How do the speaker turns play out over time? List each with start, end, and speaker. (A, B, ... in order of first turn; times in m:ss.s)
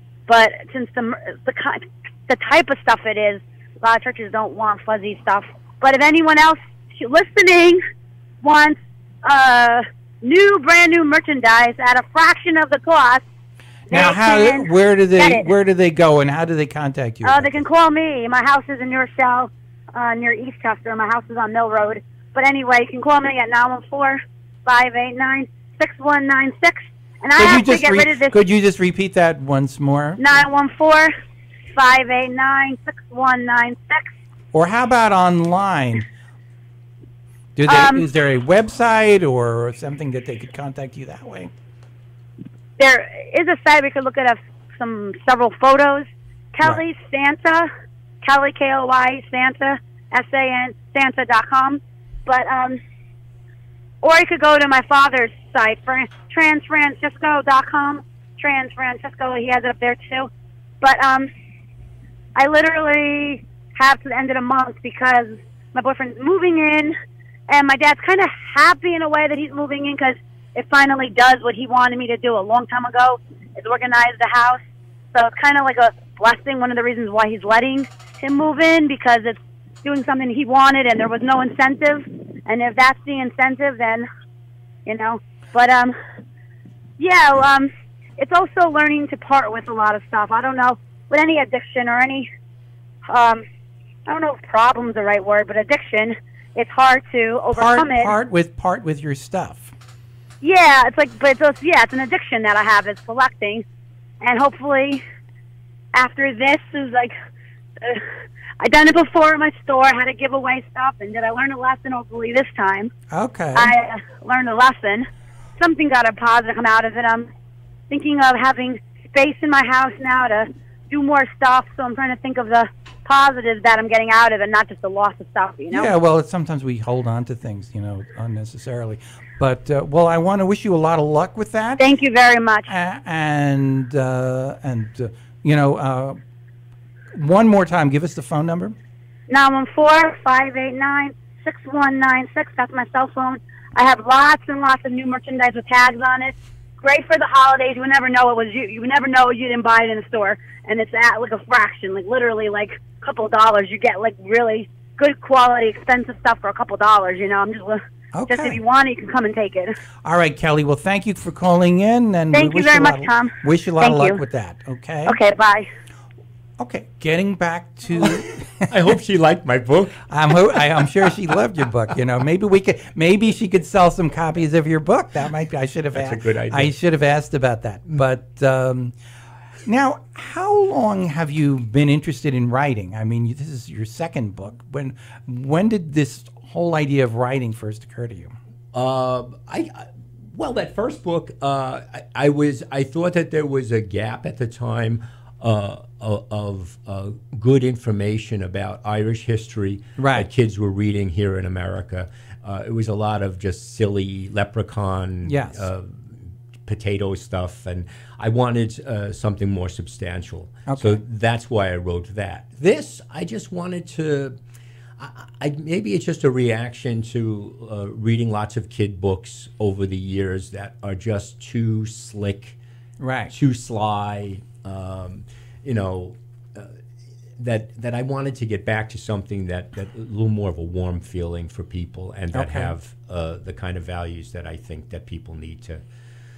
0:00.3-0:07.8 A
0:08.4-0:13.2 A
0:13.9-0:15.5 A
0:13.9-0:17.6 B
0:17.2-0:28.4 A
0:27.4-0:30.2 B
0:30.2-0:31.1 A
0:31.8-0:34.1 A
0:34.5-0:36.1 B
0:37.6-0:41.5 B
0:37.7-0:38.0 A
0:42.8-0:47.7 A
0:48.2-0:52.8 A
0:54.0-1:00.3 A
1:00.8-1:01.3 A
1:02.4-1:07.0 A
1:07.5-1:14.6 A
1:15.1-1:24.1 A
1:24.9-1:26.0 A
1:27.0-1:32.3 A
1:33.1-1:33.4 A
1:34.1-1:38.1 A
1:37.5-1:39.7 B
1:40.4-1:43.6 A
1:44.2-1:45.0 A
1:45.9-1:47.1 A
1:48.6-1:52.9 A
1:53.1-1:53.7 B
1:53.6-1:57.3 A
1:57.9-2:05.9 A
2:05.7-2:11.8 B
2:11.8-2:12.7 A
2:12.7-2:16.2 B
2:17.1-2:18.8 B
2:19.3-2:39.8 A
2:38.1-2:38.6 B
2:40.0-2:45.2 B
2:42.3-2:44.2 A
2:45.1-2:45.7 A
2:46.6-2:48.7 B
2:48.2-2:50.6 C
2:50.1-2:58.9 B
2:55.9-2:56.8 C
2:59.7-3:08.3 B
3:08.7-3:34.4 C
3:20.0-3:20.3 B
3:25.2-3:25.7 B
3:30.7-3:31.0 B
3:35.0-3:42.6 C
3:43.0-3:43.3 B
3:43.3-3:46.7 C
3:47.4-3:55.8 C
3:52.3-3:52.8 B